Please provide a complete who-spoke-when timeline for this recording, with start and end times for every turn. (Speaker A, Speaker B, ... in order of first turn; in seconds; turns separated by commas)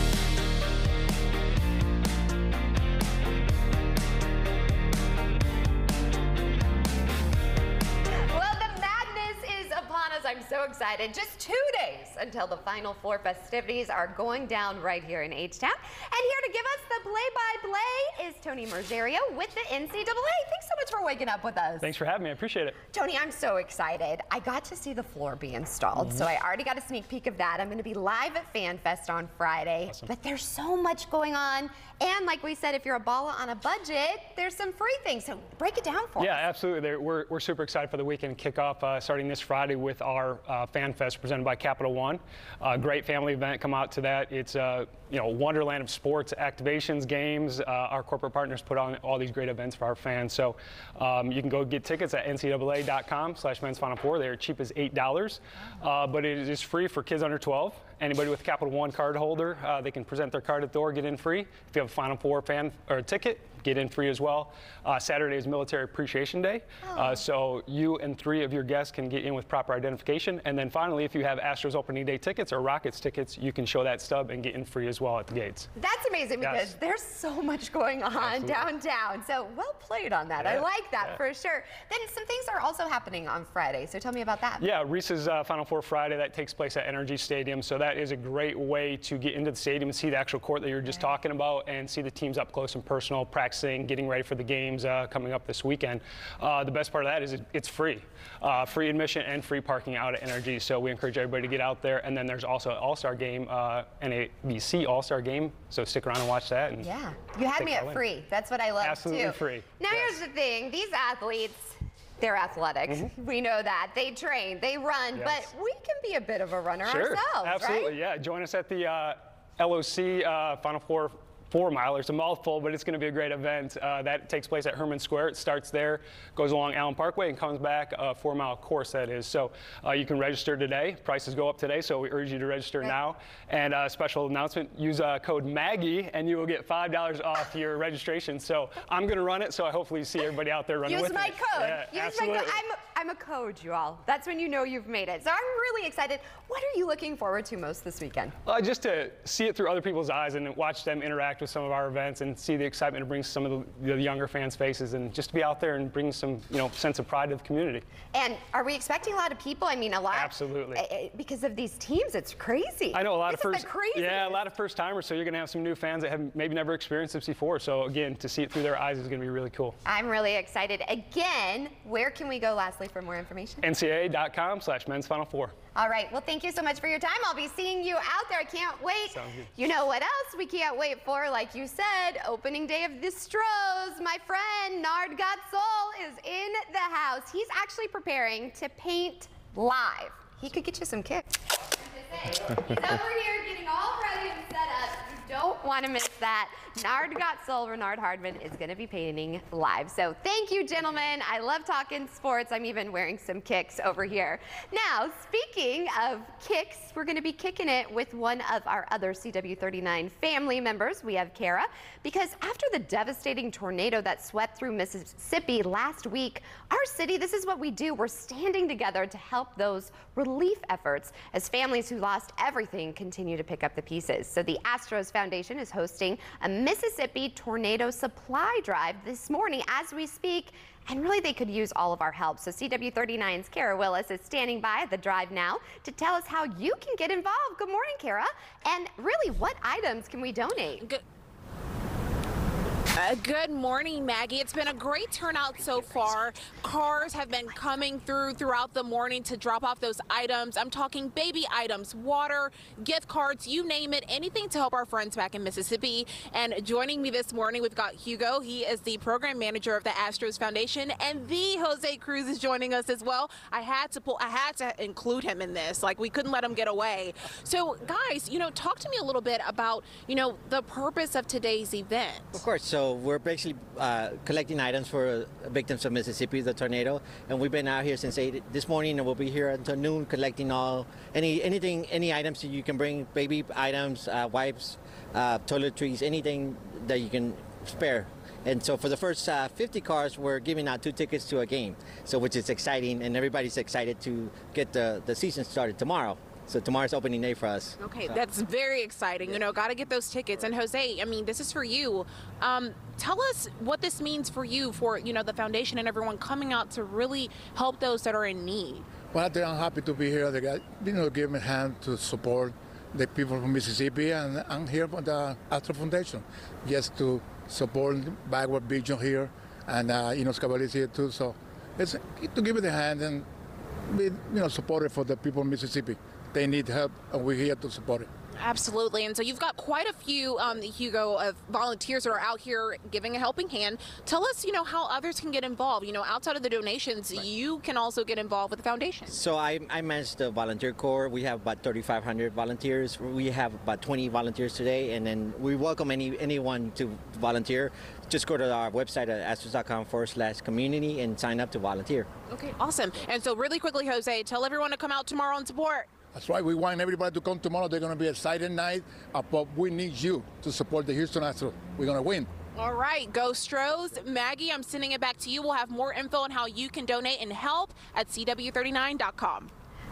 Speaker A: 8.3-21.9, Speaker B: 21.8-22.8, Speaker A: 22.9-36.5, Speaker B: 36.2-75.7, Speaker A: 66.8-67.2, Speaker A: 75.8-84.7, Speaker B: 76.4-76.7, Speaker B: 78.2-78.6, Speaker B: 80.4-81.2, Speaker B: 84.6-106.9, Speaker A: 106.8-117.9, Speaker B: 107.6-108.0, Speaker B: 108.8-110.2, Speaker B: 115.2-115.5, Speaker B: 116.9-142.6, Speaker A: 140.9-148.3, Speaker B: 148.5-157.8, Speaker A: 158.1-164.4, Speaker B: 160.1-160.8, Speaker B: 162.9-169.8, Speaker A: 169.8-173.6, Speaker B: 173.6-175.5, Speaker A: 175.8-240.9, Speaker B: 179.1-179.5, Speaker C: 243.0-272.4, Speaker D: 272.3-297.8, Speaker C: 297.8-308.9, Speaker E: 309.1-323.2, Speaker E: 323.9-328.1, Speaker C: 328.4-339.1, Speaker D: 339.1-352.1, Speaker C: 352.3-355.9, Speaker E: 356.1-362.3, Speaker C: 362.6-369.5